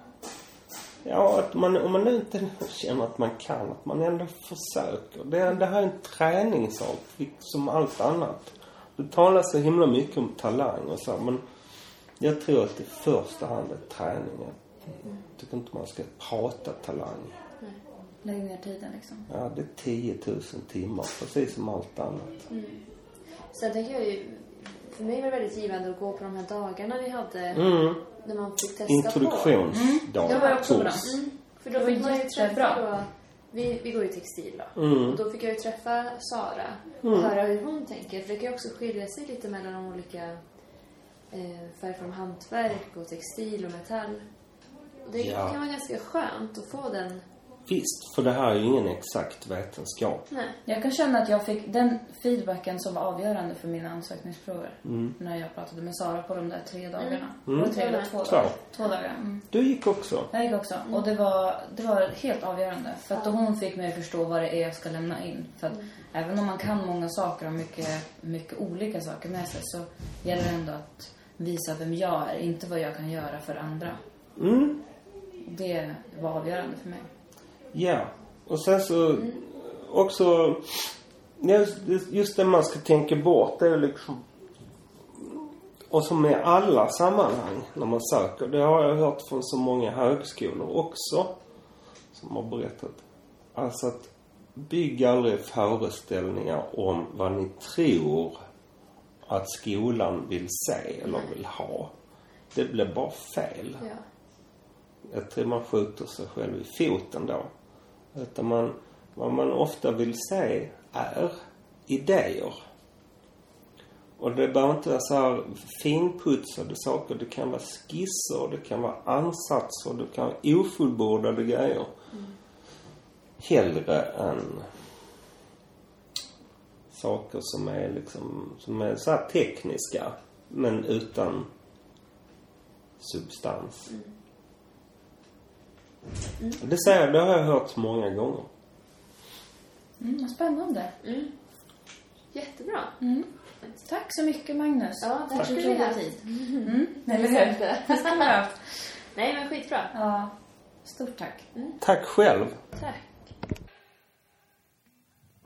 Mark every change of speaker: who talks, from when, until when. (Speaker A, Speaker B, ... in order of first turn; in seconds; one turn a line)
Speaker A: 1.0-11.4
Speaker A: 12.2-14.6
Speaker A: 15.3-17.3
Speaker B: 18.2-19.3
Speaker A: 19.3-22.4
Speaker C: 22.5-22.9
Speaker C: 23.5-29.6
Speaker A: 27.5-28.0
Speaker A: 28.9-31.2
Speaker B: 29.7-32.8
Speaker C: 30.2-40.4
Speaker A: 34.8-35.2
Speaker A: 37.0-37.3
Speaker C: 41.3-44.2
Speaker C: 45.0-47.2
Speaker A: 45.1-45.6
Speaker A: 47.6-50.2
Speaker C: 50.3-50.6
Speaker B: 50.6-59.5
Speaker A: 54.8-55.1
Speaker C: 57.0-58.2
Speaker A: 57.5-58.5
Speaker A: 59.5-60.3
Speaker B: 60.3-74.0
Speaker A: 74.4-74.8
Speaker B: 75.4-77.0
Speaker A: 77.7-84.2
Speaker A: 85.2-91.3
Speaker A: 92.1-93.0
Speaker A: 93.5-98.3
Speaker A: 99.3-101.9
Speaker C: 101.0-101.3
Speaker A: 102.5-103.8
Speaker A: 105.1-107.5
Speaker A: 108.1-111.3
Speaker A: 111.9-112.6
Speaker A: 114.2-121.9
Speaker A: 123.4-124.7
Speaker A: 126.9-131.5
Speaker A: 133.0-133.9
Speaker A: 136.6-138.5
Speaker B: 140.0-140.9
Speaker C: 141.0-141.3
Speaker C: 142.3-143.0
Speaker B: 143.0-148.7
Speaker C: 145.0-148.4
Speaker C: 149.1-149.9
Speaker B: 149.9-151.4
Speaker A: 151.8-152.5
Speaker C: 152.8-153.1